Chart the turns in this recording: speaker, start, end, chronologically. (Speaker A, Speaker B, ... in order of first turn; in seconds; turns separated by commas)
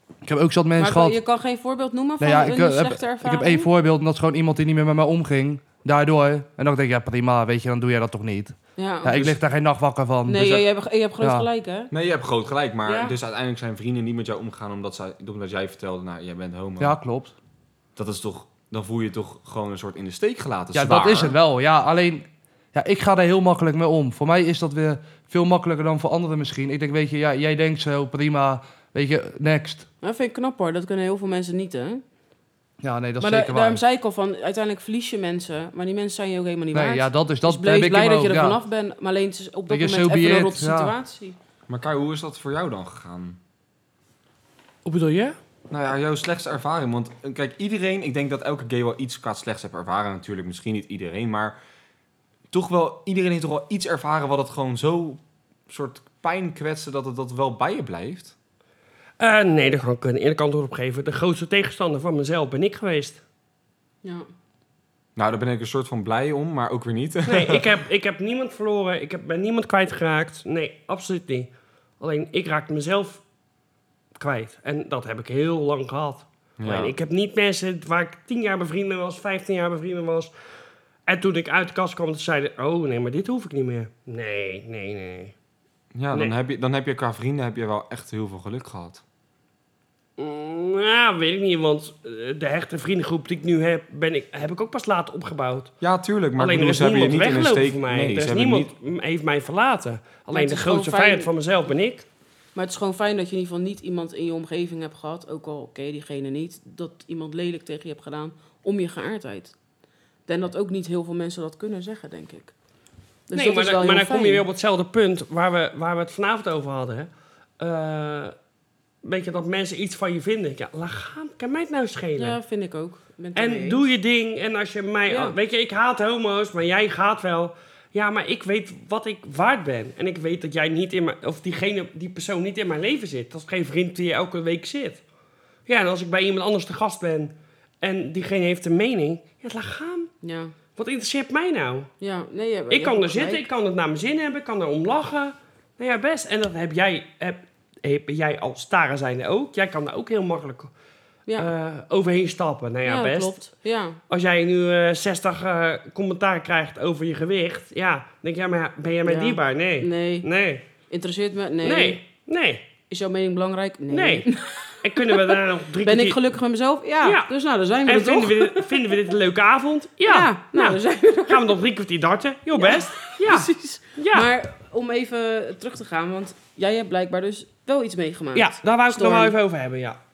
Speaker A: 0.2-1.2, Speaker B: 0.8-3.7, Speaker A: 2.2-10.6, Speaker B: 8.8-9.2, Speaker C: 9.1-9.4, Speaker B: 10.3-11.9, Speaker A: 11.2-11.5, Speaker C: 11.9-17.0, Speaker B: 12.8-13.2, Speaker A: 16.8-17.3, Speaker C: 18.0-21.4, Speaker A: 20.7-29.9, Speaker B: 30.0-32.0, Speaker A: 32.8-33.8, Speaker B: 33.2-41.4, Speaker A: 36.7-38.6, Speaker A: 39.7-40.9, Speaker C: 41.7-43.4, Speaker D: 44.9-45.4, Speaker C: 45.7-51.6, Speaker C: 52.5-58.3, Speaker D: 59.2-63.2, Speaker C: 65.2-67.7, Speaker D: 67.3-73.2, Speaker D: 74.2-80.3, Speaker C: 76.6-76.9, Speaker D: 81.1-85.3, Speaker C: 85.9-89.0, Speaker D: 90.2-95.7, Speaker C: 95.8-98.7, Speaker D: 96.4-102.1, Speaker B: 100.3-101.3, Speaker B: 102.5-109.5, Speaker B: 110.3-112.5, Speaker B: 113.3-114.5, Speaker D: 113.3-118.3, Speaker D: 119.0-122.4, Speaker B: 122.2-123.8, Speaker D: 123.3-135.0, Speaker B: 125.1-125.3, Speaker D: 135.7-140.1, Speaker B: 140.2-140.5, Speaker D: 140.8-141.9, Speaker B: 142.0-143.5, Speaker D: 142.7-150.7, Speaker D: 151.4-153.4, Speaker B: 152.9-154.0, Speaker D: 154.1-160.7, Speaker B: 159.1-160.3, Speaker B: 160.9-162.0, Speaker D: 161.6-162.7, Speaker B: 162.9-168.9, Speaker D: 163.9-164.3, Speaker D: 164.8-166.2, Speaker D: 167.0-167.3, Speaker D: 167.8-174.3, Speaker B: 170.1-171.6, Speaker B: 172.6-179.3, Speaker D: 178.3-180.0